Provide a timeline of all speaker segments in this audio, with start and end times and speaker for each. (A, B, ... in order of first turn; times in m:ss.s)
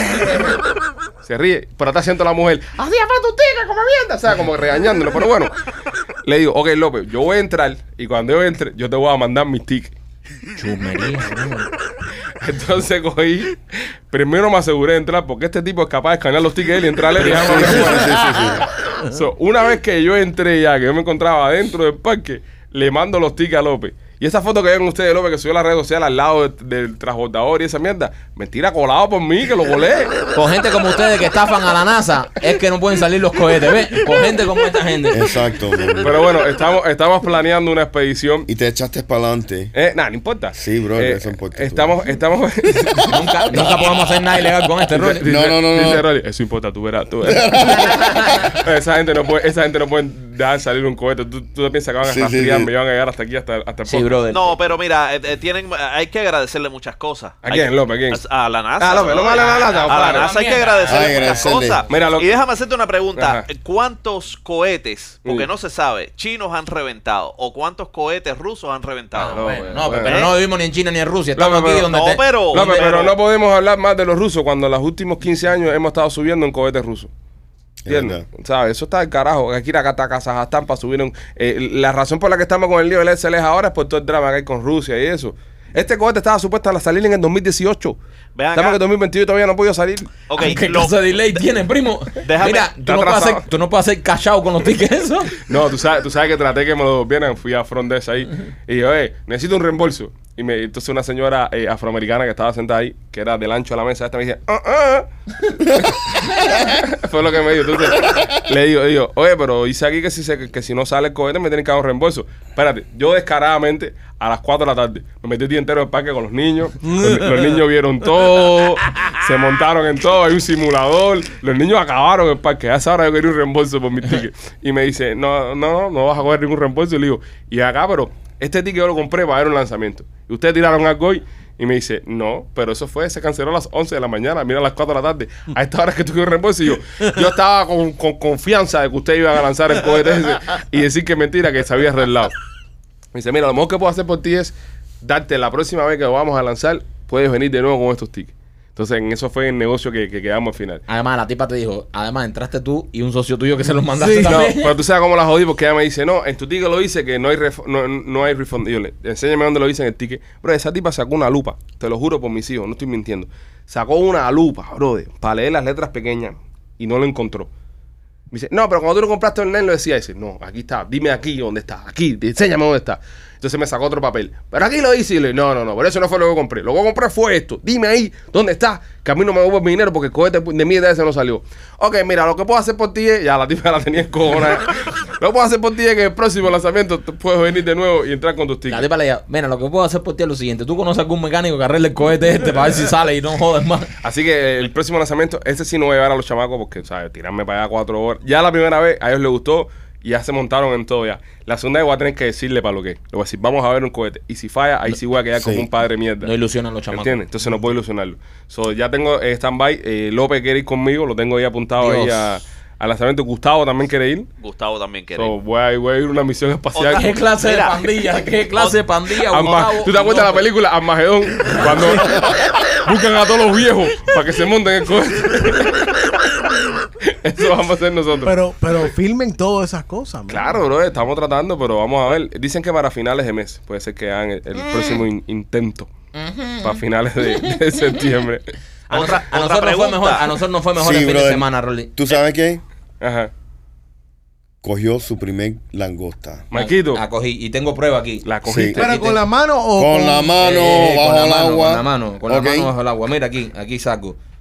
0:01.2-0:05.5 A
0:06.2-0:09.9 A
0:10.6-0:11.7 B
0:12.4-0:30.2 A
0:17.2-0:18.2 B
0:17.5-0:18.6 C
0:30.3-0:35.3 B
0:35.1-0:36.2 C
0:36.0-0:38.5 A
0:38.5-0:39.7 C
0:39.7-0:43.6 A
0:40.5-0:41.9 C
0:43.1-0:45.2 B
0:43.5-0:43.9 C
0:44.9-0:54.2 A
0:45.0-0:46.0 C
0:47.2-0:48.0 C
0:52.0-0:52.7 C
0:53.8-0:54.6 B
0:54.3-1:10.4 D
0:57.4-0:58.2 A
0:58.8-1:00.3 A
0:59.1-1:01.8 B
1:00.9-1:01.8 C
1:01.9-1:02.4 A
1:03.2-1:03.4 A
1:09.1-1:13.0 B
1:09.3-1:10.3 A
1:11.4-1:11.9 A
1:11.8-1:13.2 D
1:12.5-1:17.1 A
1:17.8-1:18.2 C
1:17.9-1:28.0 A
1:28.4-1:28.8 D
1:28.5-1:30.3 A
1:30.3-1:31.0 D
1:30.4-1:35.4 B
1:32.2-1:32.7 D
1:32.8-1:33.4 A
1:35.4-2:22.3 A
2:23.1-2:30.8 A
2:30.9-2:34.8 B
2:34.0-2:34.4 E
2:34.2-2:47.5 A
2:48.3-3:08.9 A
3:08.7-3:13.9 B
3:14.0-3:26.3 A
3:25.3-3:25.7 C
3:26.2-3:27.2 B
3:26.9-3:34.3 A
3:31.8-3:32.3 B
3:34.4-3:35.4 D
3:35.1-3:37.1 A
3:36.7-3:37.9 D
3:36.9-3:40.5 B
3:38.5-3:38.8 D
3:39.2-3:45.9 A
3:41.8-3:42.2 E
3:47.0-3:48.4 A
3:48.2-3:50.6 E
3:50.3-3:55.9 A
3:54.6-3:55.0 B
3:56.1-3:58.0 B
3:56.6-3:58.5 A
3:58.9-4:01.9 B
3:58.9-4:00.4 D
4:00.8-4:02.6 C
4:03.0-4:03.3 A
4:04.6-4:06.4 C
4:06.5-4:07.0 A
4:06.5-4:09.2 B
4:08.2-4:09.0 A
4:08.4-4:08.8 C
4:08.8-4:10.4 E
4:09.8-4:12.7 C
4:10.4-4:14.2 B